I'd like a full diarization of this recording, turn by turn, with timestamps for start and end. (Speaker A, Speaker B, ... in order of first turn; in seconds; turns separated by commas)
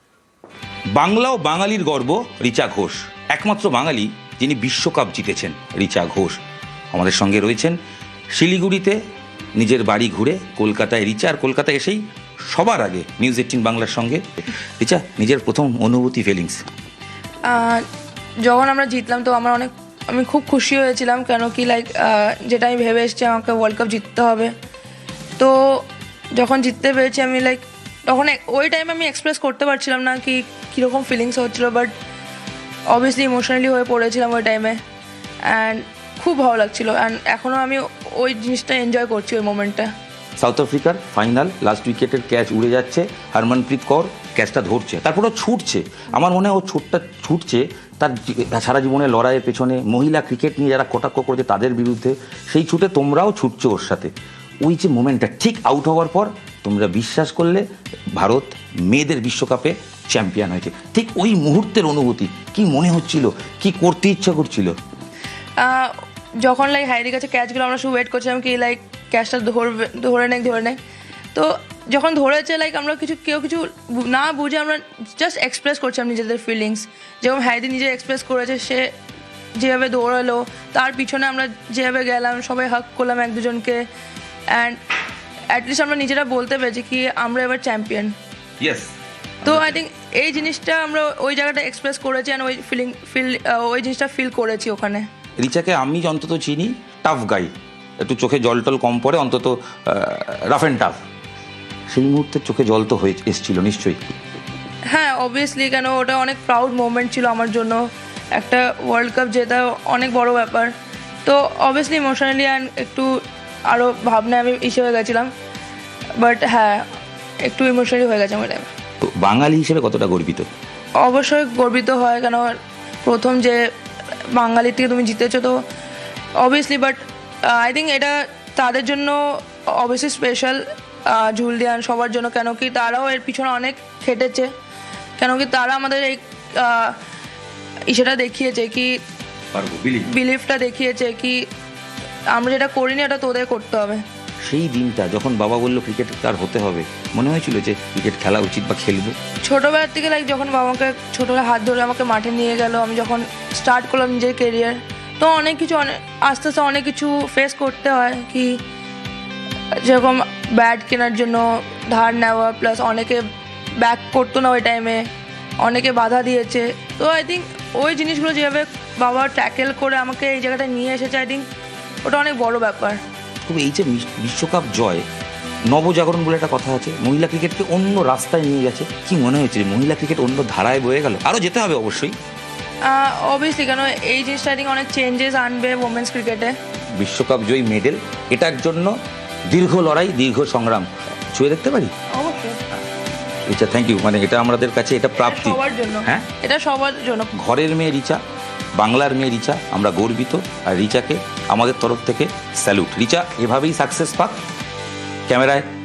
Speaker A: 0.9-6.4, Speaker A: 6.9-7.8, Speaker A: 8.3-9.0, Speaker A: 9.6-14.2, Speaker A: 14.8-16.6, Speaker B: 17.5-17.8, Speaker B: 18.4-24.5, Speaker B: 25.4-25.8, Speaker B: 26.3-31.9, Speaker B: 32.9-34.8, Speaker B: 35.5-39.9, Speaker A: 40.4-64.7, Speaker B: 65.6-70.8, Speaker B: 71.3-78.9, Speaker B: 79.6-83.8, Speaker B: 84.5-84.8, Speaker B: 85.5-88.1, Speaker A: 88.6-89.8, Speaker B: 89.5-95.0, Speaker A: 95.4-101.0, Speaker A: 101.9-104.0, Speaker B: 104.9-107.8, Speaker B: 108.3-110.7, Speaker B: 111.2-113.1, Speaker B: 113.7-115.3, Speaker B: 116.2-116.8, Speaker B: 117.4-118.7, Speaker A: 119.0-120.5, Speaker B: 121.0-122.5, Speaker B: 123.0-123.6, Speaker B: 124.3-125.5, Speaker B: 126.4-129.2, Speaker B: 129.8-134.5, Speaker B: 135.2-137.0, Speaker B: 137.9-138.9, Speaker A: 139.5-140.1, Speaker B: 140.1-141.4, Speaker B: 142.3-144.0, Speaker A: 144.4-149.1, Speaker B: 149.4-158.5, Speaker B: 159.8-163.2, Speaker B: 163.8-165.1, Speaker B: 165.6-171.4, Speaker B: 172.0-173.0, Speaker A: 173.4-175.0, Speaker A: 175.7-182.1, Speaker B: 182.9-186.5, Speaker A: 186.9-188.9, Speaker A: 189.5-191.9, Speaker B: 192.1-192.6, Speaker A: 193.5-196.3, Speaker B: 195.2-197.3, Speaker A: 197.3-198.2, Speaker A: 198.8-204.4, Speaker A: 205.3-205.6